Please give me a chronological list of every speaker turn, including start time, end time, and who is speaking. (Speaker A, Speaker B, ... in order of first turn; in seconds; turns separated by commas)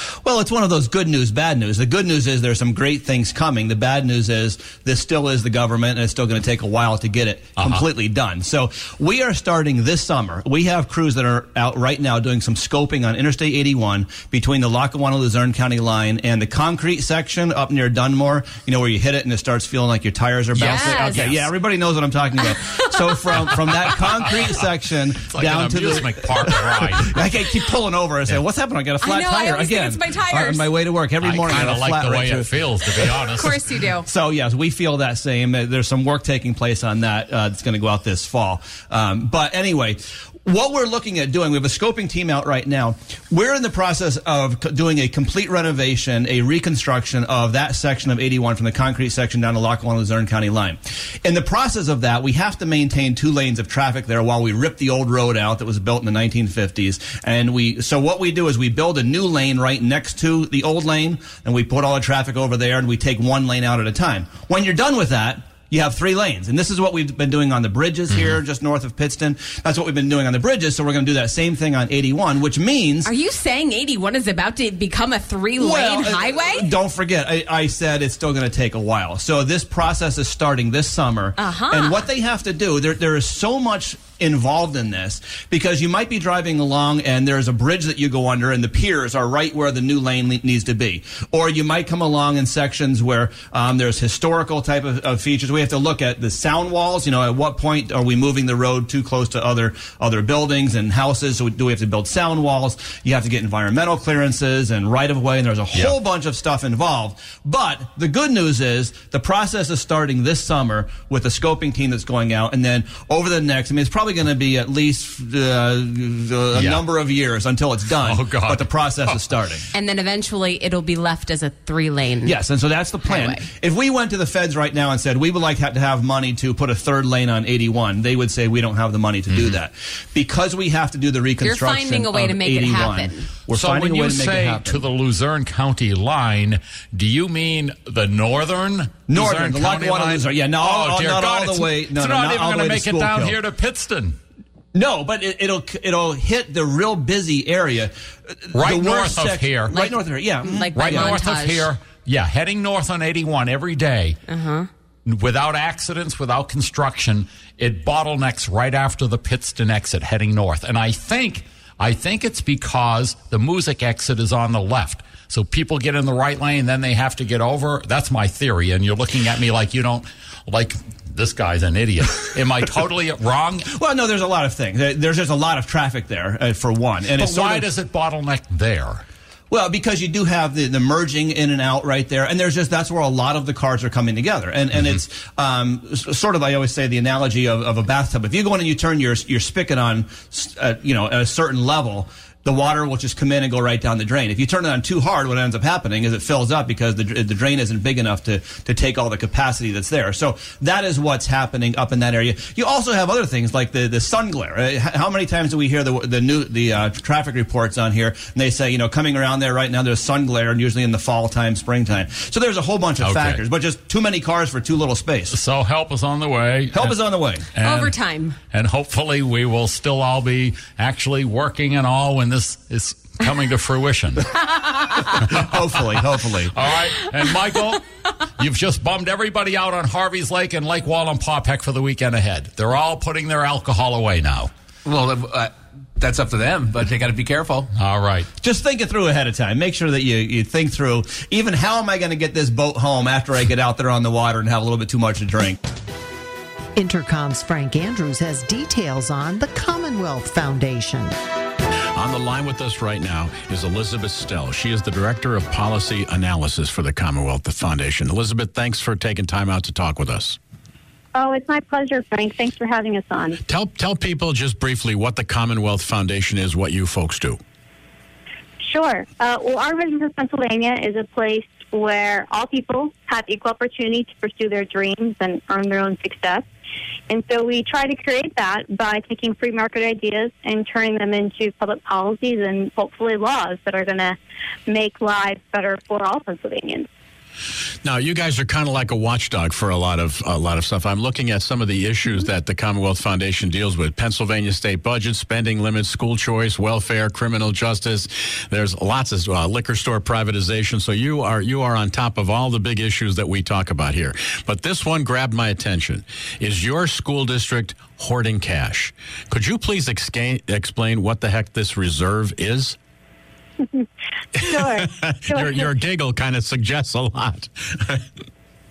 Speaker A: 0.2-33.3, Speaker B: 7.6-7.8, Speaker B: 20.5-21.5, Speaker C: 20.6-21.4, Speaker C: 22.4-22.9, Speaker B: 25.2-27.2, Speaker C: 29.0-30.7, Speaker B: 31.2-33.7, Speaker C: 33.3-34.1, Speaker A: 34.0-73.1, Speaker C: 73.0-76.7, Speaker A: 75.5-119.6, Speaker C: 81.4-82.0, Speaker B: 116.5-116.9, Speaker B: 118.0-118.7, Speaker C: 119.7-122.4, Speaker A: 122.2-134.9, Speaker C: 123.0-123.4, Speaker B: 129.3-129.6, Speaker C: 131.4-133.3, Speaker B: 133.5-144.2, Speaker A: 139.1-143.4, Speaker A: 144.7-151.2, Speaker B: 148.5-149.7, Speaker C: 149.7-151.7, Speaker B: 150.7-154.2, Speaker C: 154.3-154.7, Speaker B: 155.0-173.7, Speaker A: 173.7-177.7, Speaker B: 177.2-179.0, Speaker A: 179.5-215.4, Speaker B: 213.0-213.4, Speaker B: 215.3-217.0, Speaker A: 216.7-217.5, Speaker B: 217.5-224.6, Speaker C: 217.6-218.4, Speaker A: 225.2-226.6, Speaker B: 226.4-227.8, Speaker B: 228.4-234.5, Speaker D: 234.8-237.7, Speaker B: 237.8-238.3, Speaker A: 238.4-245.6, Speaker E: 246.7-251.1, Speaker F: 251.9-260.4, Speaker G: 261.1-263.4, Speaker F: 263.5-267.4, Speaker G: 268.6-276.4, Speaker G: 277.1-284.2, Speaker G: 284.7-286.9, Speaker F: 287.8-312.8, Speaker G: 314.4-315.7, Speaker F: 314.4-318.0